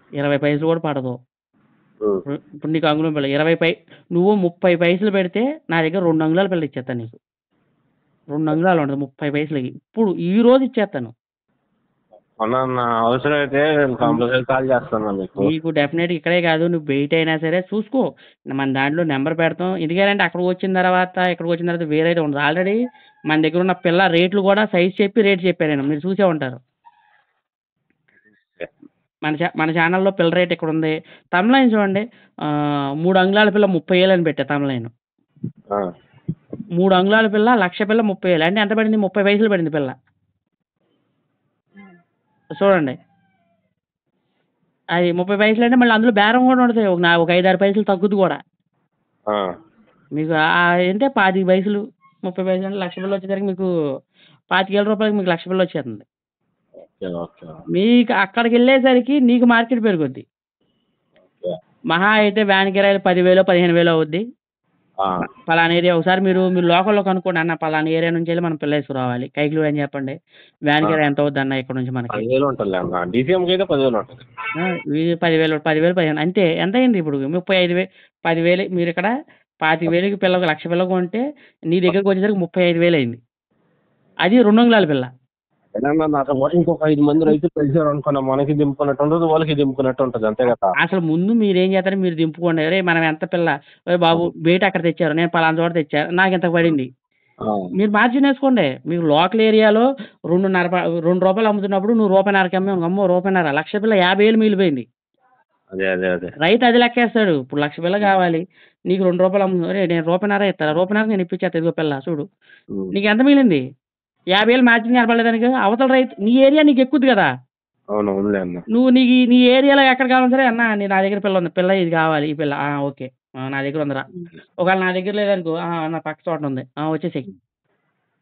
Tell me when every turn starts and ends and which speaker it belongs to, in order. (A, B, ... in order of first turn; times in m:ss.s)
0:00.2-0:01.2 A
0:02.3-0:07.2 A
0:08.3-0:11.1 A
0:12.4-0:15.5 B
0:15.4-0:22.8 A
0:23.3-0:26.6 A
0:29.2-0:32.5 A
0:33.0-0:34.9 A
0:36.8-0:39.9 A
0:42.6-0:43.0 A
0:45.0-0:48.4 A
0:50.2-0:53.7 A
0:54.5-0:56.0 A
0:56.9-0:57.6 B
0:57.7-1:00.2 A
1:01.9-1:04.2 A
1:05.5-1:10.2 A
1:10.7-1:12.3 A
1:12.1-1:14.2 B
1:14.6-1:19.1 A
1:19.6-1:23.2 A
1:24.2-1:25.1 A
1:25.8-1:30.7 B
1:30.8-1:36.9 A
1:37.8-1:44.8 A
1:45.7-1:46.3 B
1:46.4-1:52.2 A
1:52.9-1:53.6 A
1:54.3-1:57.3 A
1:57.9-1:58.6 B
1:58.7-2:04.1 A
2:04.6-2:07.3 A